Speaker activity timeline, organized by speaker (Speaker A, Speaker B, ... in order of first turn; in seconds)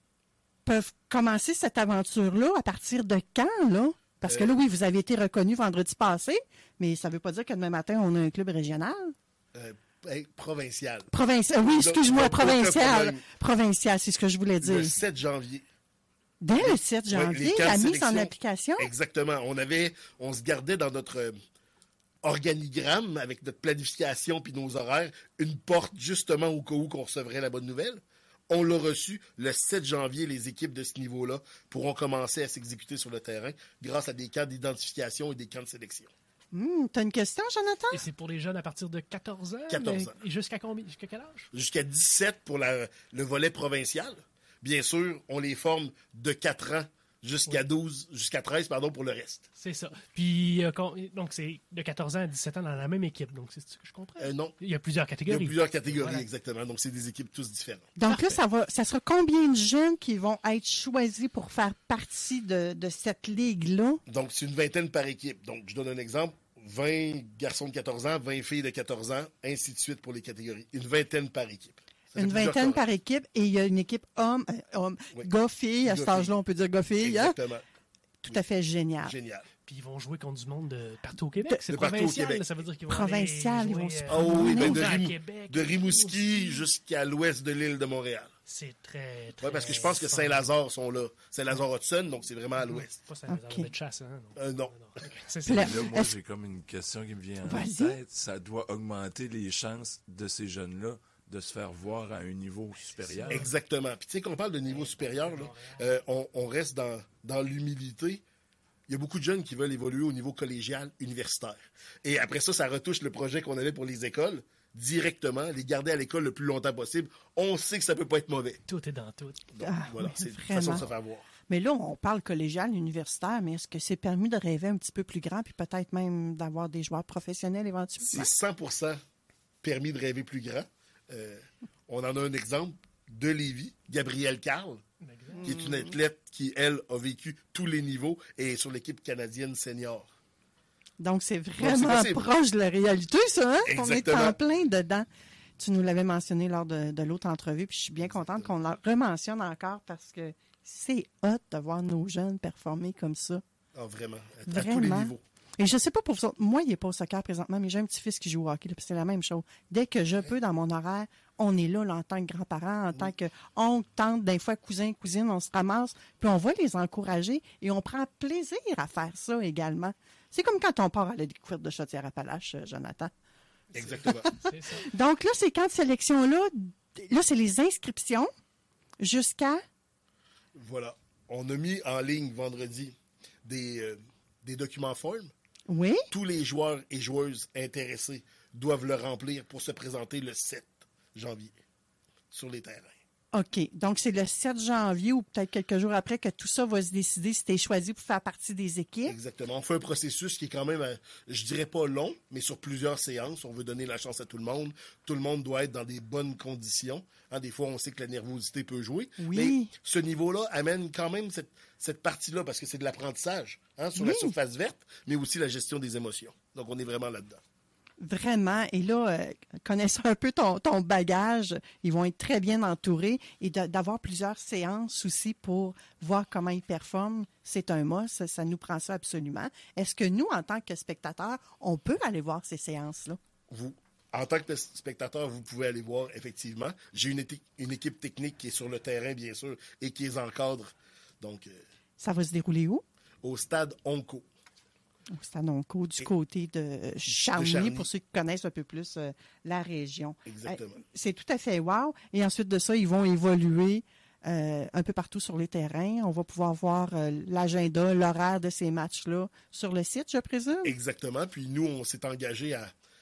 Speaker A: 0.6-9.1, 11.1-15.0, 16.4-18.9, 36.5-38.0, 58.0-64.0, 72.2-77.4, 78.2-79.1, 82.9-84.9, 93.3-93.7, 95.5-96.1, 97.4-98.0, 119.6-120.9, 121.5-128.3, 135.5-135.8, 141.0-145.1, 145.6-153.4, 154.5-173.1, 174.0-178.3, 179.0-179.6, 185.7-186.0, 193.3-199.2, 209.2-209.7, 214.0-214.4, 218.0-233.2, 242.0-242.8, 245.1-260.8
Speaker B: 4.2-4.5, 9.5-11.1, 11.7-13.2, 14.6-15.6, 16.6-21.4, 22.2-36.1, 39.7-40.2, 41.5-49.5, 54.2-54.6, 55.2-57.9, 64.1-72.8, 75.8-76.3, 77.0-77.6, 79.0-79.5, 81.7-82.5, 84.1-88.3, 89.4-93.0, 94.3-94.8, 103.3-108.2, 108.9-118.6, 119.5-121.3, 128.0-129.0, 129.6-134.8, 135.4-140.1, 141.6-142.3, 143.7-144.4, 148.1-148.5, 153.7-155.2, 173.7-174.3, 180.6-185.3, 186.1-191.5, 192.3-192.9, 199.1-217.4, 233.5-241.6, 243.2-244.2, 247.1-247.9, 250.2-250.8, 260.6-262.7
Speaker C: 37.9-41.5, 49.6-56.2, 58.1-58.4, 79.7-86.7, 88.5-90.5, 92.6-95.8, 102.8-103.5, 104.6-105.8, 118.7-119.4, 135.0-135.5, 173.7-174.9
Speaker D: 95.5-103.4